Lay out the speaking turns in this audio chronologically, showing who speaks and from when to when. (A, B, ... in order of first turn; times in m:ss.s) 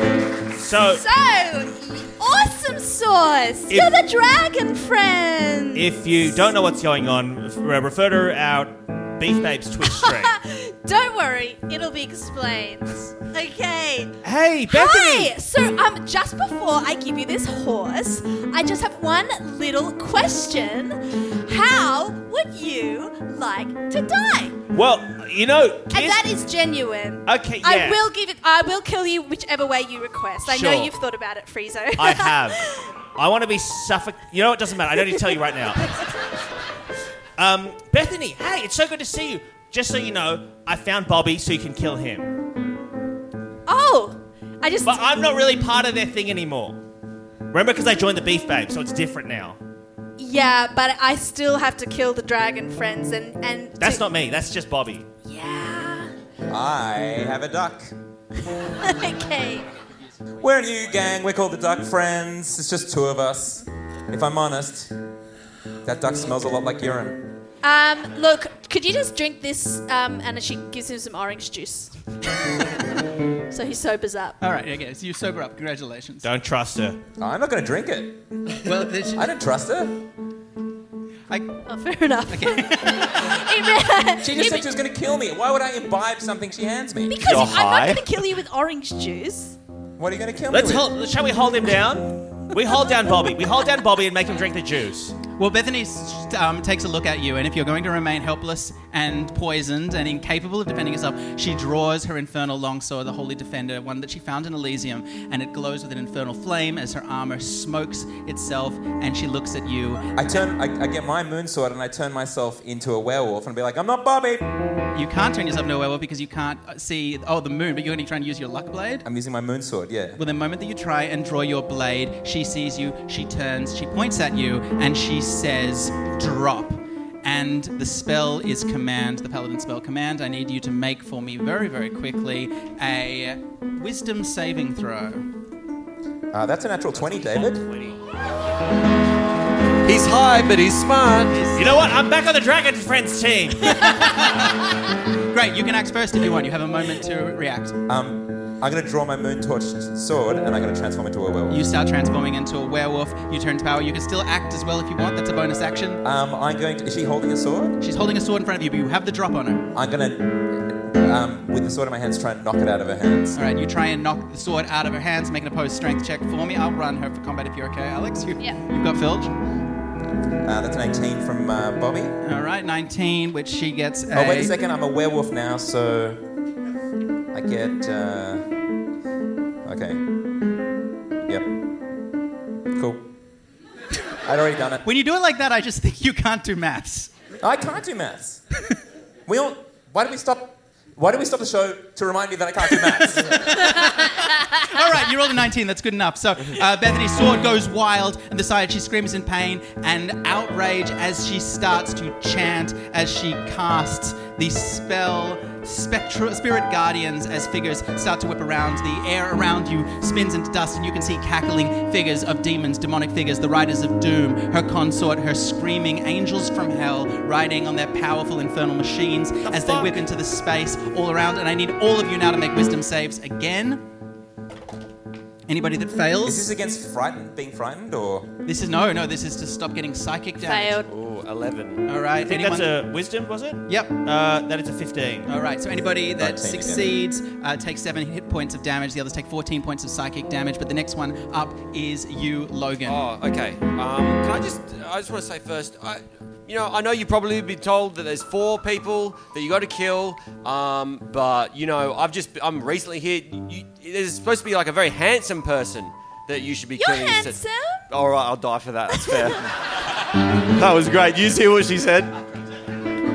0:00.6-0:01.0 A
0:00.8-0:05.9 B
0:05.8-0:10.3 A
0:09.8-0:14.1 B
0:14.2-0:15.3 A
0:14.7-0:24.6 B
0:24.7-0:26.2 A
0:25.9-0:32.8 B
0:27.3-0:28.0 A
0:30.4-0:30.9 A
0:32.0-0:35.9 A
0:37.4-0:42.3 A
0:43.7-0:45.0 B
0:44.8-0:46.8 A
0:47.5-0:49.6 A
0:50.2-0:54.0 B
0:53.8-0:55.1 A
0:55.3-0:56.1 B
0:56.5-0:57.9 C
0:58.6-0:59.7 B
1:00.4-1:04.9 C
1:05.8-1:07.4 C
1:07.6-1:12.0 B
1:13.5-1:14.4 B
1:14.4-1:16.3 D
1:16.2-1:17.0 A
1:17.2-1:18.2 C
1:18.6-1:19.3 D
1:19.1-1:20.0 C
1:21.3-1:21.6 D
1:21.7-1:24.7 B
1:22.3-1:23.3 D
1:24.2-1:27.4 C
1:27.1-1:29.6 B
1:27.2-1:28.0 A
1:30.0-1:30.9 C
1:30.5-1:35.2 A
1:35.4-1:50.1 D
1:50.2-1:54.5 C
1:55.0-1:59.0 D
1:59.0-2:00.2 C
2:00.2-2:15.3 D
2:16.3-2:17.7 C
2:16.9-2:18.0 E
2:19.8-2:21.4 E
2:21.3-2:21.9 D
2:21.6-2:24.4 A
2:23.9-2:24.5 D
2:25.3-2:27.8 D
2:27.9-2:31.6 C
2:31.5-2:36.0 D
2:36.0-2:37.8 C
2:37.8-2:39.7 D
2:39.7-2:43.4 C
2:43.4-2:49.3 D
2:50.4-2:52.2 C
2:52.2-2:54.6 D
2:54.1-2:56.2 C
2:57.3-2:58.5 C
2:59.6-3:00.0 C
3:01.3-3:01.6 C
3:02.7-3:03.1 C
3:04.2-3:04.8 C
3:04.8-3:07.1 D
3:07.4-3:08.4 C
3:09.3-3:13.6 C
3:13.5-3:43.8 D
3:39.4-3:40.0 A
3:45.5-3:46.5 D
3:46.2-3:48.3 C
3:48.4-3:50.8 D
3:50.4-3:50.9 B
3:50.9-3:51.9 E
3:51.9-3:52.8 D
3:52.2-3:55.3 A
3:53.7-3:54.0 D
3:55.3-4:03.0 D
3:56.2-3:56.9 C
4:02.9-4:19.5 E
4:16.8-4:17.8 B
4:18.9-4:19.3 B
4:20.3-4:22.2 E